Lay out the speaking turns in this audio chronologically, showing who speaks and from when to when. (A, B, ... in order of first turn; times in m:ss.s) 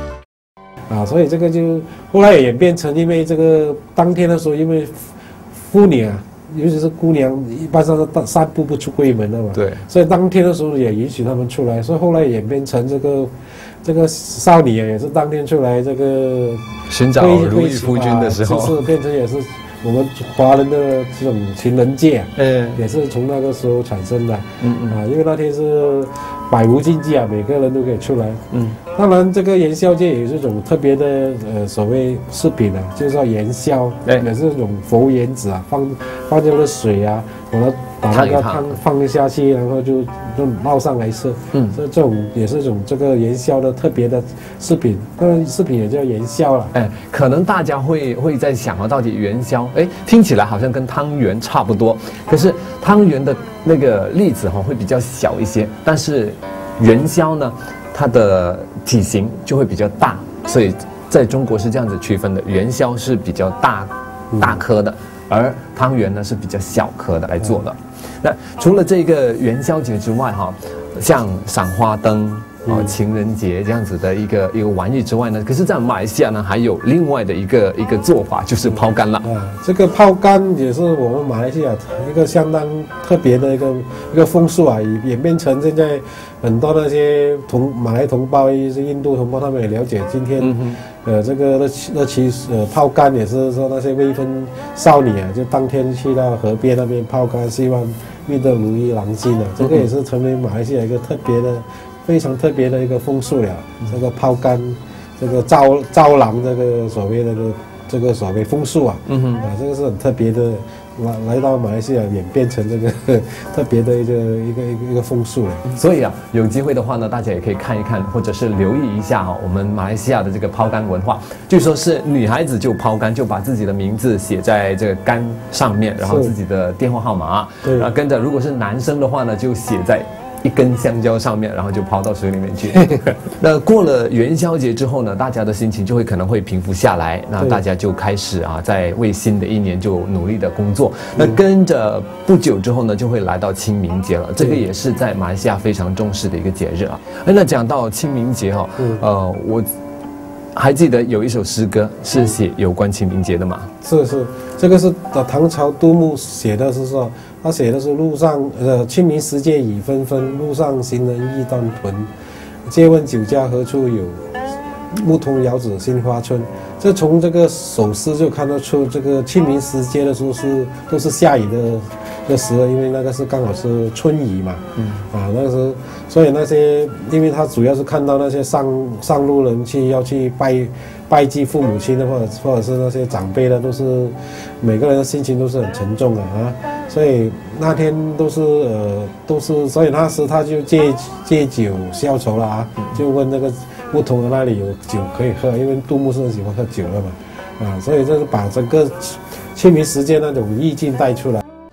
0:00.9-0:13.3 A
0:09.5-0:09.8 B
0:13.8-0:46.7 A
0:16.9-0:18.8 B
0:22.4-0:22.8 B
0:24.6-0:25.0 B
0:28.5-0:28.8 B
0:38.1-0:38.8 B
0:46.7-1:19.2 B
1:04.3-1:04.6 A
1:12.6-1:12.9 A
1:18.6-1:55.7 A
1:30.4-1:30.8 B
1:39.6-1:39.9 B
1:49.1-1:49.5 B
1:55.7-2:29.7 B
2:06.0-2:06.3 A
2:07.6-2:07.9 A
2:12.7-2:13.0 A
2:28.8-2:29.0 A
2:30.5-2:33.7 B
2:33.8-2:42.1 A
2:42.7-2:44.3 A
2:44.9-3:21.4 A
2:54.8-2:55.0 B